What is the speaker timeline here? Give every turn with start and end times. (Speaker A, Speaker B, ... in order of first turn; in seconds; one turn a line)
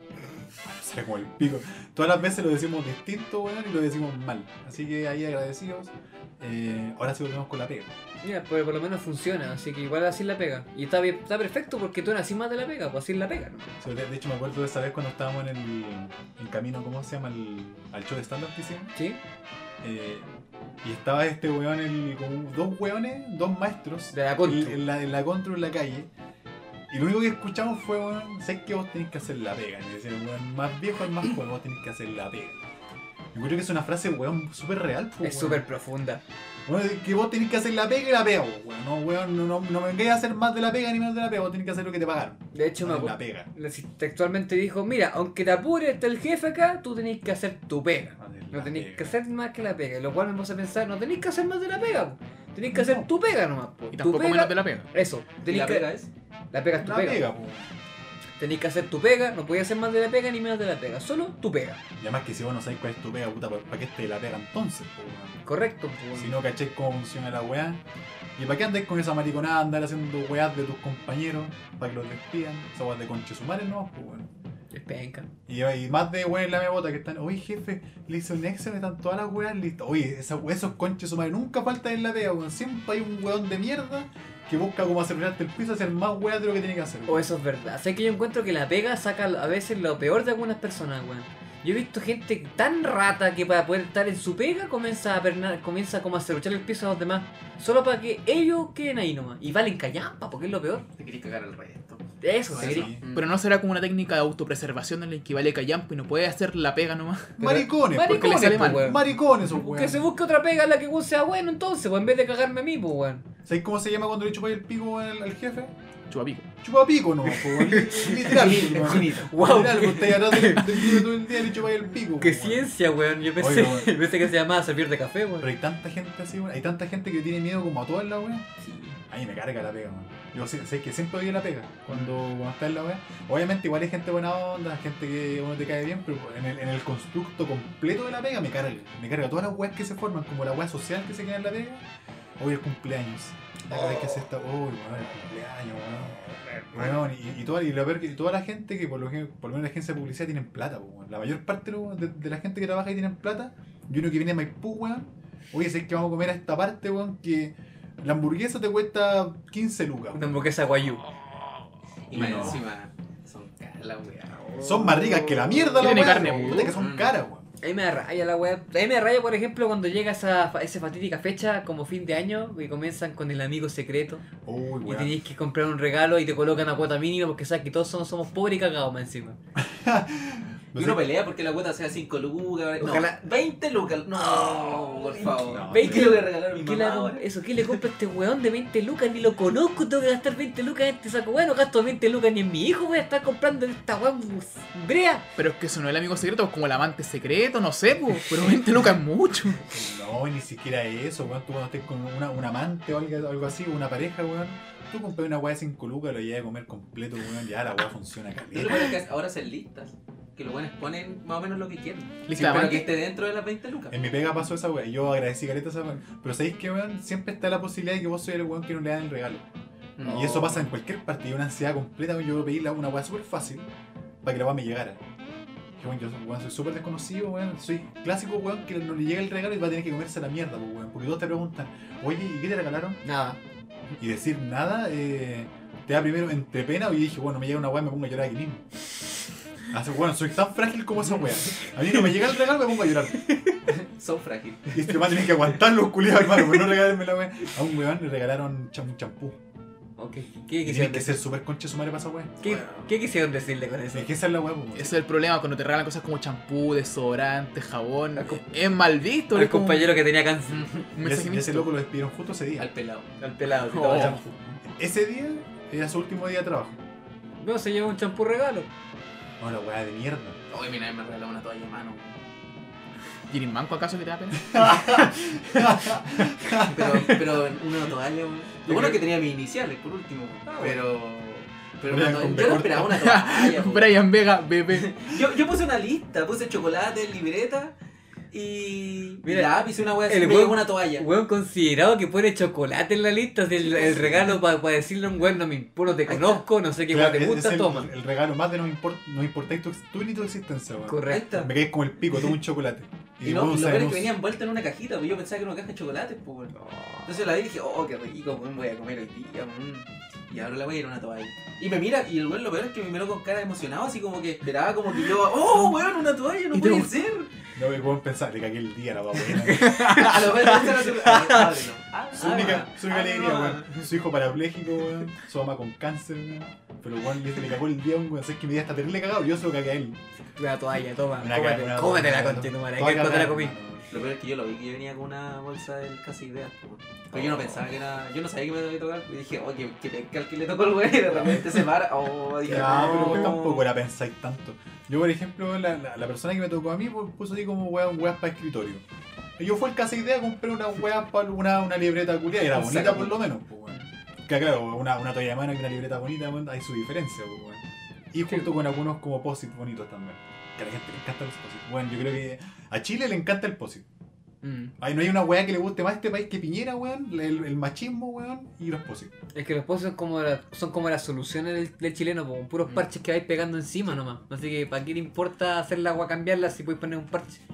Speaker A: 0.6-7.9
Speaker B: 8.2-13.7
Speaker A: 13.8-18.9
Speaker A: 19.8-20.3
Speaker A: 20.8-26.1
Speaker B: 24.1-24.8
Speaker A: 26.9-32.6
Speaker A: 33.3-35.6
Speaker B: 35.2-36.2
Speaker A: 36.6-43.5
Speaker B: 42.5-55.9
Speaker A: 48.2-49.2
Speaker A: 52.7-53.1
Speaker C: 53.9-54.9
Speaker D: 55.4-56.1
Speaker B: 56.5-57.2
Speaker A: 56.7-57.7
Speaker B: 58.4-61.8
Speaker A: 62.0-65.4
Speaker B: 65.5-66.3
Speaker A: 66.2-67.8
Speaker A: 68.3-74.3
Speaker B: 74.7-75.3
Speaker A: 75.5-87.3
Speaker B: 87.1-100.8
Speaker D: 101.0-103.3
Speaker B: 102.2-102.9
Speaker A: 102.5-103.0
Speaker C: 103.1-107.4
Speaker A: 107.4-110.0
Speaker B: 107.4-113.2
Speaker C: 108.0-109.0
Speaker A: 113.5-115.7
Speaker C: 116.1-116.5
Speaker A: 116.6-122.7
Speaker B: 117.4-121.1
Speaker D: 118.2-119.3
Speaker B: 122.2-125.5
Speaker A: 123.4-124.0
Speaker A: 125.4-128.5
Speaker B: 128.6-129.0
Speaker A: 129.1-141.8
Speaker A: 142.4-146.2
Speaker A: 146.7-160.4
Speaker B: 160.1-161.0
Speaker D: 162.1-164.5
Speaker A: 162.1-162.6
Speaker B: 164.4-166.7
Speaker A: 164.6-167.4
Speaker C: 165.8-166.7
Speaker D: 166.7-167.2
Speaker B: 167.6-174.2
Speaker A: 174.4-175.2
Speaker B: 174.8-179.4
Speaker A: 179.6-181.0
Speaker D: 180.7-187.8
Speaker B: 182.8-183.2
Speaker B: 184.1-195.2
Speaker A: 185.4-186.2
Speaker C: 195.4-199.6
Speaker A: 199.6-209.0
Speaker D: 208.5-214.0
Speaker C: 212.2-212.9
Speaker A: 213.9-219.4
Speaker D: 220.0-220.7
Speaker A: 220.0-223.7
Speaker A: 224.2-225.0
Speaker A: 225.8-233.0
Speaker B: 233.0-233.4
Speaker A: 234.0-238.6
Speaker A: 239.7-243.3
Speaker D: 243.7-245.4
Speaker A: 244.7-249.4
Speaker B: 250.0-251.2
Speaker A: 250.6-252.3
Speaker D: 252.4-252.9
Speaker B: 252.4-254.1
Speaker A: 253.9-254.9
Speaker C: 254.7-260.0
Speaker B: 259.3-260.7
Speaker D: 260.5-260.8
Speaker C: 260.9-261.7
Speaker A: 261.0-262.7
Speaker D: 262.6-263.2
Speaker B: 263.2-264.3
Speaker C: 263.6-264.2
Speaker A: 263.8-266.8
Speaker B: 267.4-268.7
Speaker A: 269.4-270.4
Speaker D: 270.5-272.2
Speaker C: 273.3-274.7
Speaker A: 274.4-277.2
Speaker D: 276.5-283.9
Speaker B: 278.6-279.0
Speaker B: 280.5-280.8
Speaker A: 281.8-283.0
Speaker C: 282.7-285.0
Speaker D: 284.7-287.7
Speaker D: 288.3-291.1
Speaker B: 289.2-297.9
Speaker D: 293.7-294.2
Speaker D: 296.0-296.4
Speaker A: 296.9-304.1
Speaker B: 300.9-301.4
Speaker D: 301.1-301.5
Speaker D: 303.2-306.5
Speaker B: 306.6-307.1
Speaker D: 307.1-317.3
Speaker C: 316.5-316.9
Speaker A: 317.6-319.8
Speaker B: 319.4-321.6
Speaker C: 319.6-320.1
Speaker D: 319.8-323.8
Speaker A: 322.1-330.0
Speaker B: 330.4-333.5
Speaker A: 331.2-333.9
Speaker D: 333.9-343.7
Speaker A: 337.1-337.6
Speaker A: 342.4-348.8
Speaker B: 342.6-343.0
Speaker A: 349.4-363.8
Speaker D: 352.5-353.2
Speaker B: 364.4-364.7
Speaker A: 364.8-369.1
Speaker B: 369.3-377.4